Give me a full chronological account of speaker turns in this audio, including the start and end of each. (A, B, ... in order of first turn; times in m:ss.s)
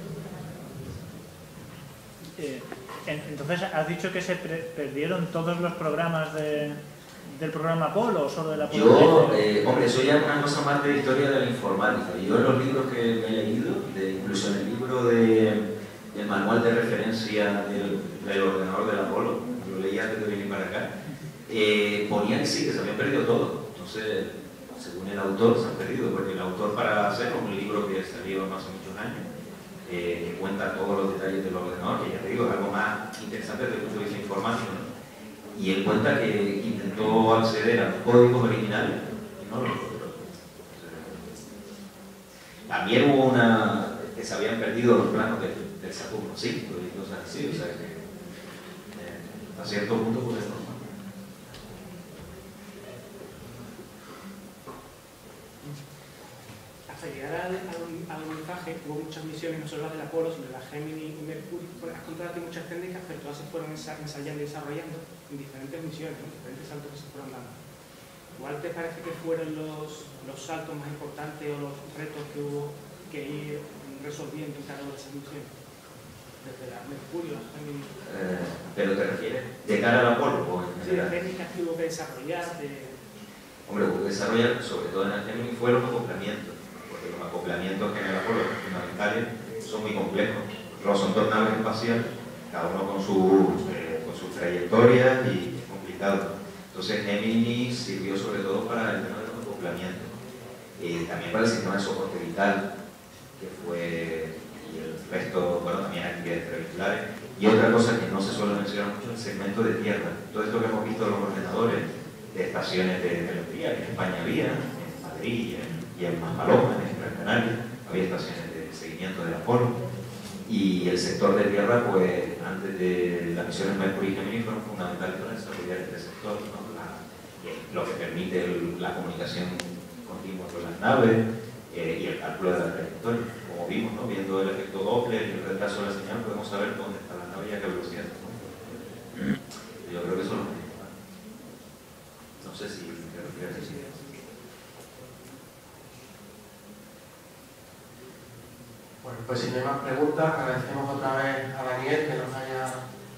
0:02.4-0:06.8 A
0:07.3-0:09.4 A
0:08.7-0:20.9 B
0:21.5-0:29.3 B
0:29.9-0:34.9 B
0:35.5-0:40.1 B
0:40.7-0:41.2 B
0:42.7-0:48.0 B
0:48.9-0:50.8 B
0:56.9-1:07.5 C
1:08.4-1:15.5 C
1:16.4-1:17.9 C
1:18.0-1:21.1 B
1:20.8-1:23.0 C
1:23.7-1:40.1 B
1:40.8-1:42.6 B
1:43.4-1:59.8 B
2:00.5-2:18.6 B
2:19.8-2:20.9 B
2:22.4-2:23.9 B
2:29.0-2:32.8 D